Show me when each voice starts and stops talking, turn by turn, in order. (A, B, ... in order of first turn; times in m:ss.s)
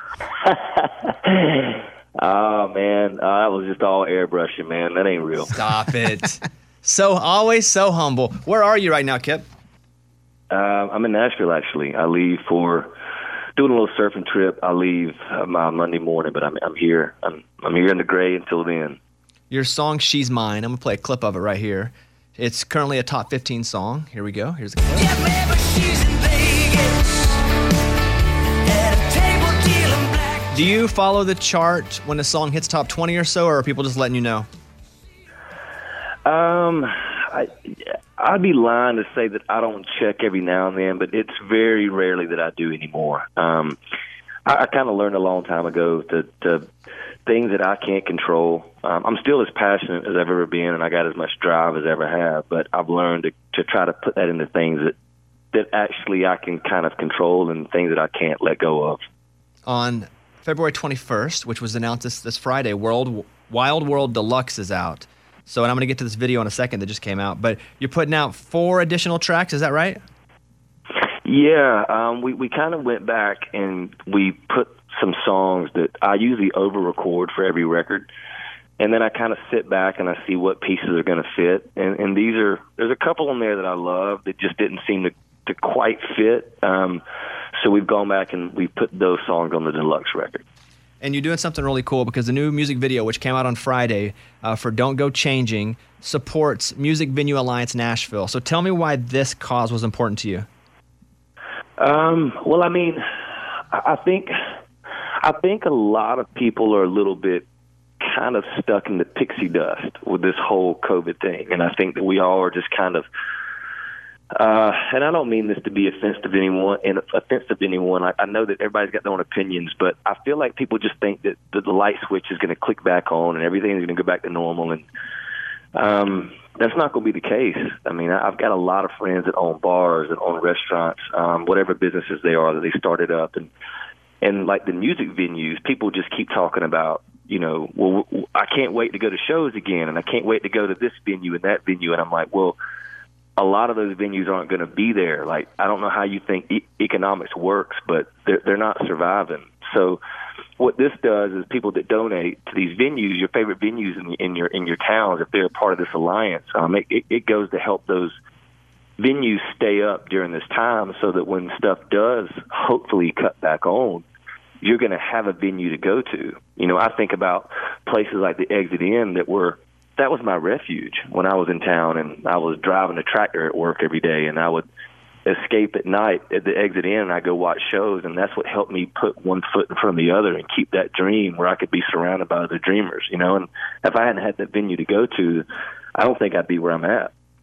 0:00.5-0:05.5 A
0:05.4-0:09.4 B
0:10.5-0:12.9 A
0:13.6-0:19.0 A
0:19.5-0:25.3 B
0:30.5-0:34.5 B
0:36.2-0:37.5 A
0:38.2-0:43.8 A
0:44.4-0:46.7 A
0:47.2-0:54.9 A
0:55.5-0:59.0 A
0:59.6-1:10.0 B
1:11.2-1:18.1 A
1:18.8-1:27.0 A
1:27.6-1:30.4 A
1:31.0-1:40.5 B
1:41.8-1:43.0 A
1:43.7-1:44.3 A
1:45.2-1:47.4 A
1:48.0-1:53.0 A
1:54.3-2:04.8 A
2:05.7-2:13.5 A
2:14.2-2:22.6 A
2:23.4-2:30.0 A
2:30.6-2:38.2 A
2:39.0-2:44.0 A
2:44.6-2:54.6 A
2:55.2-3:05.4 A
3:06.0-3:07.1 A